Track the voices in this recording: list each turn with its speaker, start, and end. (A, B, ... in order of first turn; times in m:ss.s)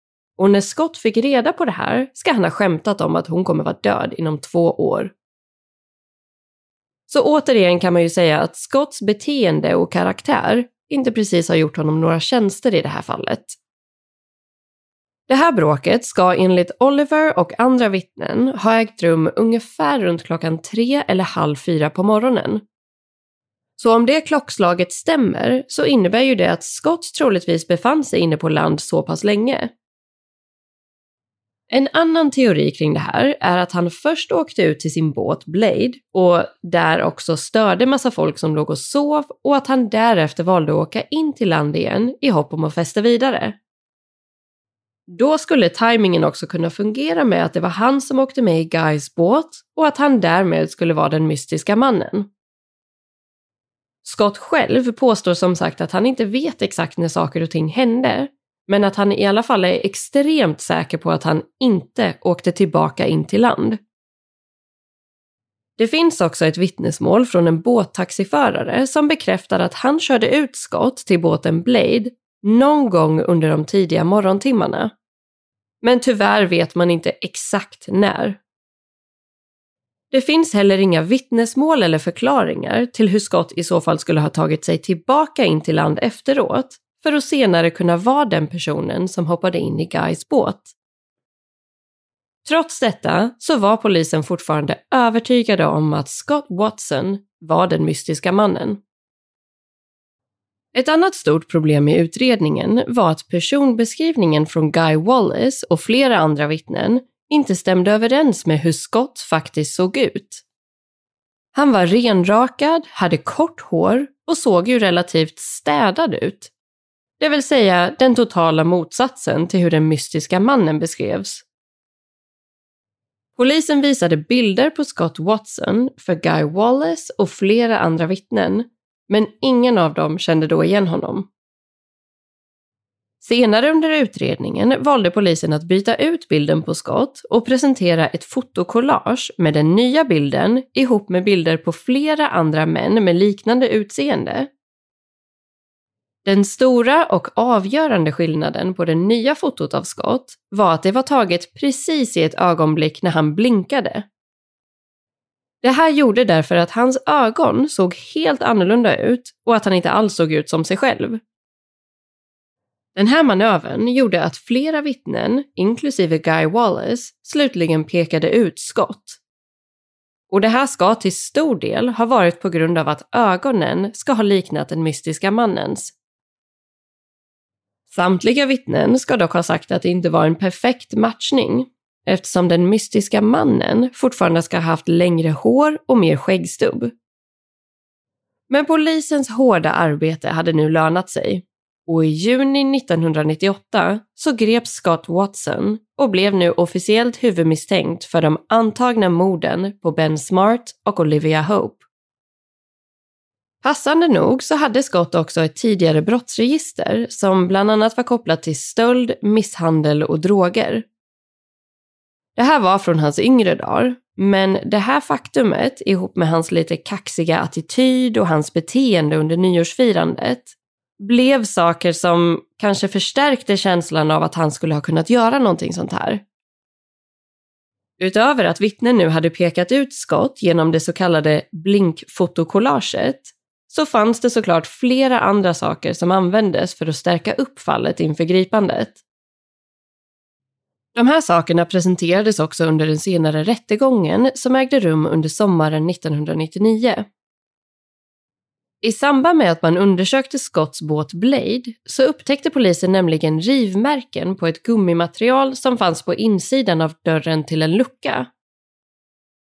0:00.4-0:05.1 A
0:07.1-0:13.6 A
0:15.3-0:22.6 A
0:23.8-0:29.7 A
0:31.7-0:43.6 A
0:45.1-0:52.3 A
0:54.0-1:03.8 A
1:05.8-1:14.9 A
1:15.8-1:18.4 A
1:20.1-1:30.7 A
1:32.4-1:38.8 A
1:40.7-1:50.4 A
1:51.6-1:56.5 A
1:57.2-2:01.4 A
2:03.4-2:11.3 A
2:13.2-2:24.5 A
2:26.2-2:34.0 A
2:35.6-2:41.2 A
2:43.0-2:49.2 A
2:50.3-2:55.9 A
2:57.9-3:06.9 A
3:08.5-3:21.8 A
3:23.6-3:30.8 A
3:32.4-3:46.2 A
3:48.0-3:59.0 A
4:01.0-4:07.1 A
4:08.8-4:18.3 A